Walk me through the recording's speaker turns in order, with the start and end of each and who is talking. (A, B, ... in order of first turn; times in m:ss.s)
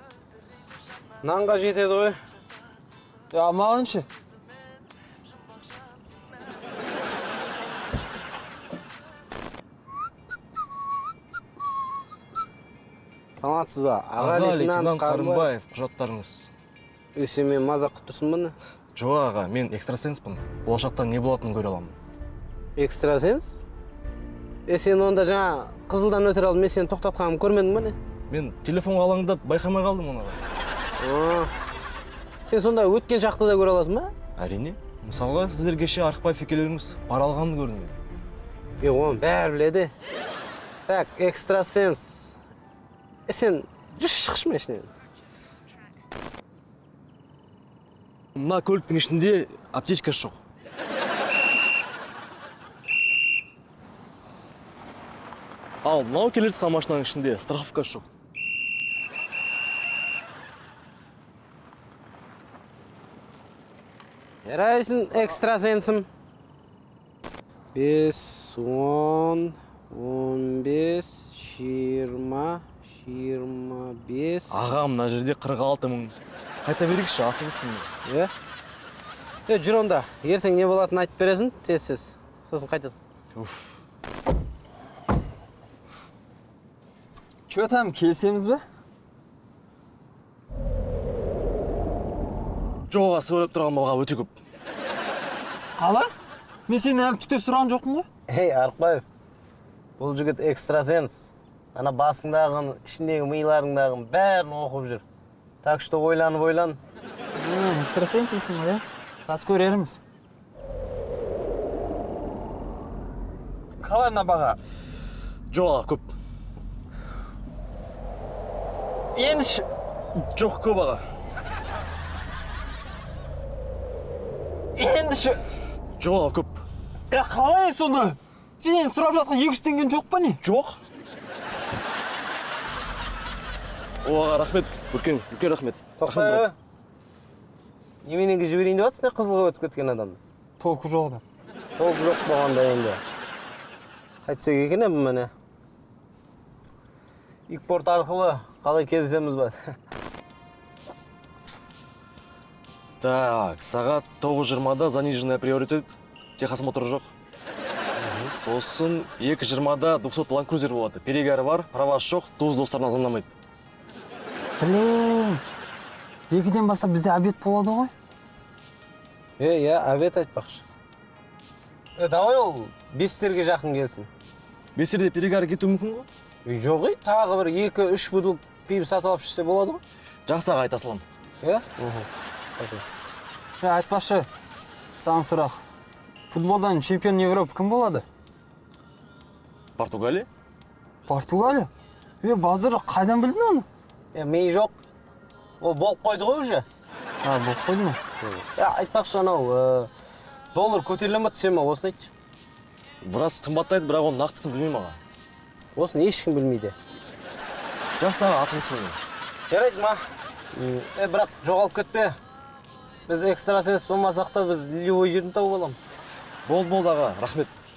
0:01.2-0:02.2 A
0:03.3-0:04.0 B
0:13.3-0:15.5 A
0:14.2-0:16.5 C
0:17.1-0:18.5 A
0:18.9-0:22.0 C
0:22.8-0:23.6 A
0:24.7-0:28.0 A
0:28.3-0:30.4 C
0:31.0-0:31.5 A
0:32.5-0:34.1 A
0:34.4-0:38.0 C
0:38.8-0:39.9 A
0:40.9-0:42.3 A
0:43.3-0:44.9 A
0:48.4-0:50.4 C
0:55.8-0:58.1 C
1:04.4-1:06.1 A
1:07.7-1:14.7 A
1:14.5-1:17.9 C
1:18.0-1:18.3 A
1:19.5-1:23.0 A
1:23.3-1:23.8 C
1:27.5-1:28.6 B
1:32.9-1:34.3 C
1:35.8-1:36.1 B
1:36.7-1:38.1 B
1:38.3-1:39.0 A
1:40.0-1:45.0 A
1:45.6-1:46.8 A
1:47.3-1:50.0 B
1:53.8-1:54.6 B
1:55.5-1:56.1 C
1:59.1-1:59.6 B
2:00.2-2:01.0 C
2:04.8-2:05.4 B
2:06.0-2:06.6 C
2:07.1-2:10.4 B
2:10.4-2:10.8 C
2:14.0-2:16.4 C
2:16.0-2:16.5 A
2:18.0-2:20.2 A
2:20.6-2:21.2 B
2:21.8-2:23.0 A
2:24.2-2:25.3 A
2:27.5-2:29.6 A
2:33.0-2:37.1 C
2:38.0-2:38.3 A
2:38.3-2:43.3 C
2:44.6-2:45.4 B
2:46.3-2:47.9 B
2:49.4-2:50.6 A
2:52.0-2:54.1 A
2:54.8-2:56.1 C
2:56.4-2:59.8 A
3:00.3-3:01.0 C
3:01.4-3:02.8 A
3:03.6-3:04.3 B
3:05.0-3:05.6 B
3:06.3-3:08.0 B
3:09.8-3:10.3 C
3:11.1-3:11.7 B
3:12.2-3:13.6 B
3:14.1-3:14.8 A
3:15.6-3:16.6 A
3:17.2-3:18.0 B
3:18.2-3:19.9 A
3:20.5-3:22.1 A
3:23.0-3:25.0 C
3:25.8-3:26.8 A
3:28.0-3:29.0 C
3:29.5-3:30.0 A
3:30.5-3:32.2 A
3:33.1-3:35.8 A
3:36.4-3:37.5 C